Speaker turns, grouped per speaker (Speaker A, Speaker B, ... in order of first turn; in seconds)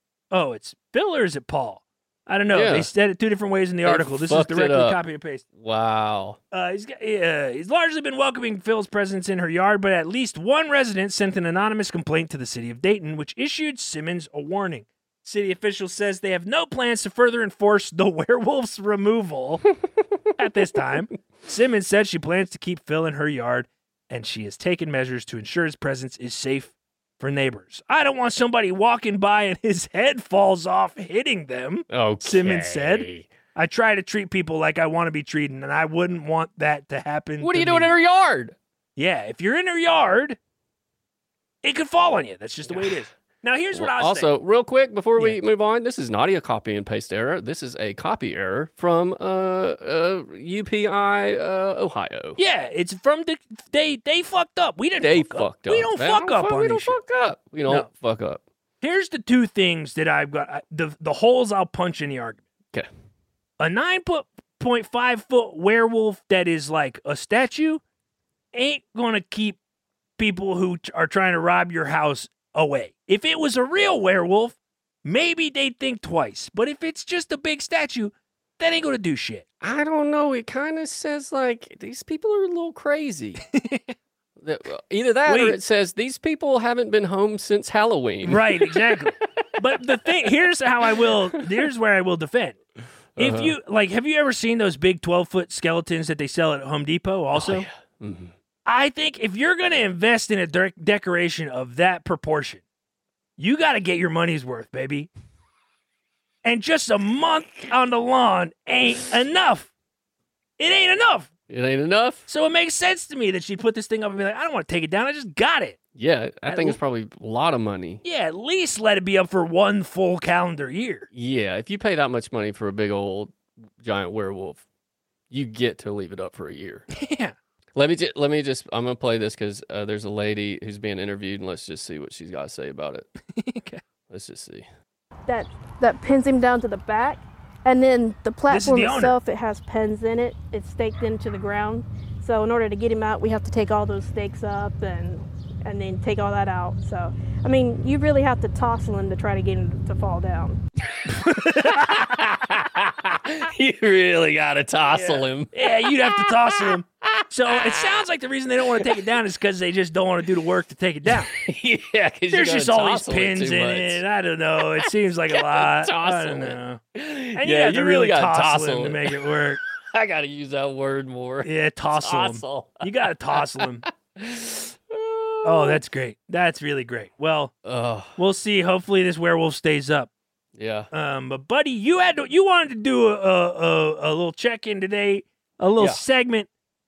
Speaker A: 0.3-5.4, 6.5-19.7, 20.4-38.0, 39.0-40.4, 41.6-44.3, 52.4-57.0, 58.8-62.4, 63.6-67.8, 68.5-69.6, 70.2-79.4, 83.5-83.9, 85.2-85.6, 88.2-92.6, 93.2-97.7, 98.7-102.6, 103.4-105.1, 106.4-109.7, 110.6-111.3, 112.3-115.8, 116.5-116.8, 118.0-121.1, 126.9-127.3, 133.3-133.8, 138.5-139.2, 151.1-152.2, 154.9-161.3, 162.3-166.8, 167.4-169.6, 171.4-173.8, 175.4-177.5, 178.2-180.1, 180.9-186.5
Speaker B: 2.5-2.9, 3.8-5.0, 5.5-6.4, 31.9-33.3, 37.4-38.5, 42.7-43.0, 43.7-52.4, 55.0-58.4, 79.6-83.4, 84.4-88.9, 91.0-91.4, 93.2-93.6, 97.3-98.3, 111.5-112.2, 116.0-118.0, 121.1-124.6, 125.3-126.8, 127.7-133.1, 134.1-134.7, 151.6-158.0, 161.1-164.0, 164.8-175.8, 177.6-178.2, 180.5-180.9
Speaker C: 135.3-150.6